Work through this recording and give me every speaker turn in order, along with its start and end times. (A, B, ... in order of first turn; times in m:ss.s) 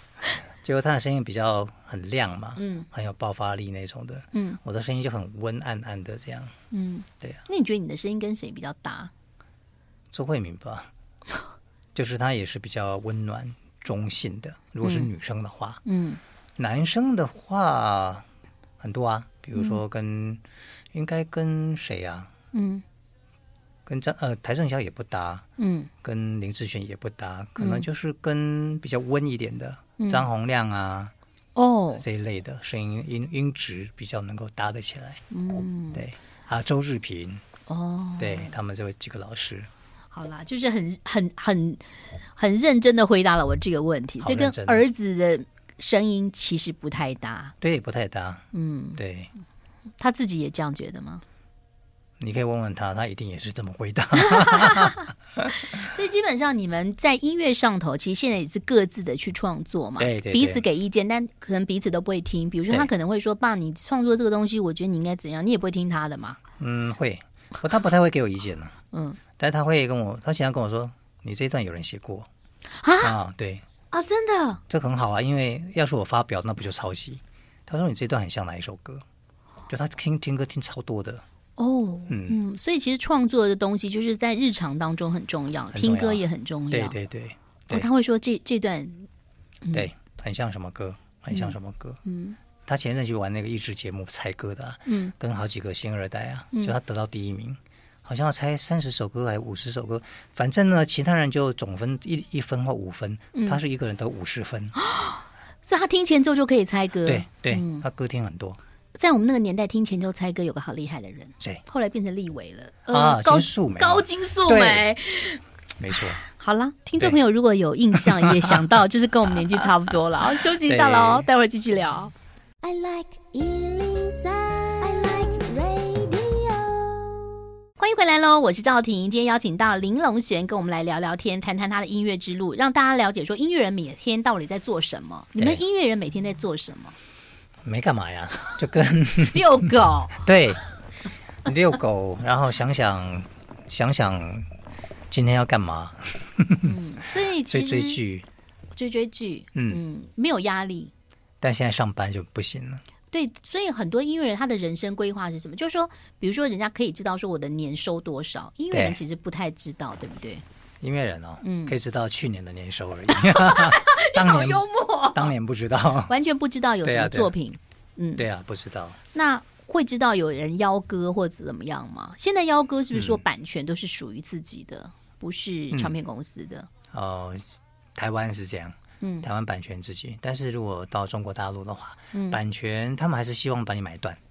0:00.6-0:06.5 A
0:02.6-0:02.9 B
0:04.3-0:04.6 B
0:06.7-0:09.1 B
0:10.1-0:10.9 A
0:12.0-0:15.8 A
0:14.8-0:15.1 B
0:15.8-0:16.2 B
0:16.6-0:18.2 A
0:18.8-0:22.3 A
0:19.6-0:19.8 B
0:22.5-0:22.8 B
0:23.9-0:25.5 A
0:25.6-0:25.9 B
0:26.0-0:31.1 A
0:27.6-0:27.9 B
0:30.0-0:30.3 B
0:31.6-0:32.0 B
0:31.9-0:35.2 A
0:35.3-0:36.0 B
0:35.9-0:37.4 A
0:37.7-0:38.5 B
0:38.2-0:39.7 A
0:40.1-0:47.5 B
0:44.2-0:44.9 A
0:47.6-0:49.3 A
0:48.5-0:49.0 B
0:50.0-0:51.2 B
0:52.2-0:55.5 A
0:54.2-1:06.4 B
1:00.0-1:00.6 A
1:06.6-1:08.8 A
1:08.9-1:09.2 B
1:09.4-1:12.3 A
1:12.8-1:13.2 B
1:13.0-1:13.6 A
1:13.9-1:14.6 B
1:14.7-1:19.0 A
1:19.7-1:21.2 A
1:21.6-1:27.0 B
1:22.1-1:22.4 A
1:25.7-1:27.9 A
1:27.7-1:29.1 B
1:29.6-1:29.9 B
1:29.7-1:32.0 A
1:31.3-1:32.4 B
1:32.6-1:44.7 A
1:34.9-1:35.1 B
1:43.3-1:43.6 B
1:44.8-1:47.8 B
1:47.0-1:48.6 A
1:49.0-1:55.4 B
1:52.9-1:54.9 A
1:55.8-1:56.2 A
1:56.0-2:02.1 B
1:58.0-1:58.7 A
2:00.6-2:01.3 A
2:02.6-2:07.4 C
2:07.8-2:17.0 B
2:15.4-2:15.6 A
2:17.6-2:20.6 A
2:19.2-2:20.2 B
2:21.4-2:24.5 A
2:25.1-2:26.7 A
2:26.6-2:28.0 B
2:27.5-2:28.3 A
2:28.7-2:30.9 B
2:29.5-2:29.8 A
2:31.4-2:32.8 A
2:33.1-2:40.4 B
2:38.7-2:39.0 A
2:40.8-2:46.1 A
2:41.4-2:41.8 B
2:43.1-2:45.3 B
2:46.1-2:48.2 B
2:46.8-2:47.3 A
2:48.2-2:49.0 A
2:49.1-2:56.7 B
2:52.9-2:53.2 A
2:56.9-3:04.2 A
2:59.0-2:59.3 B
3:02.1-3:02.4 B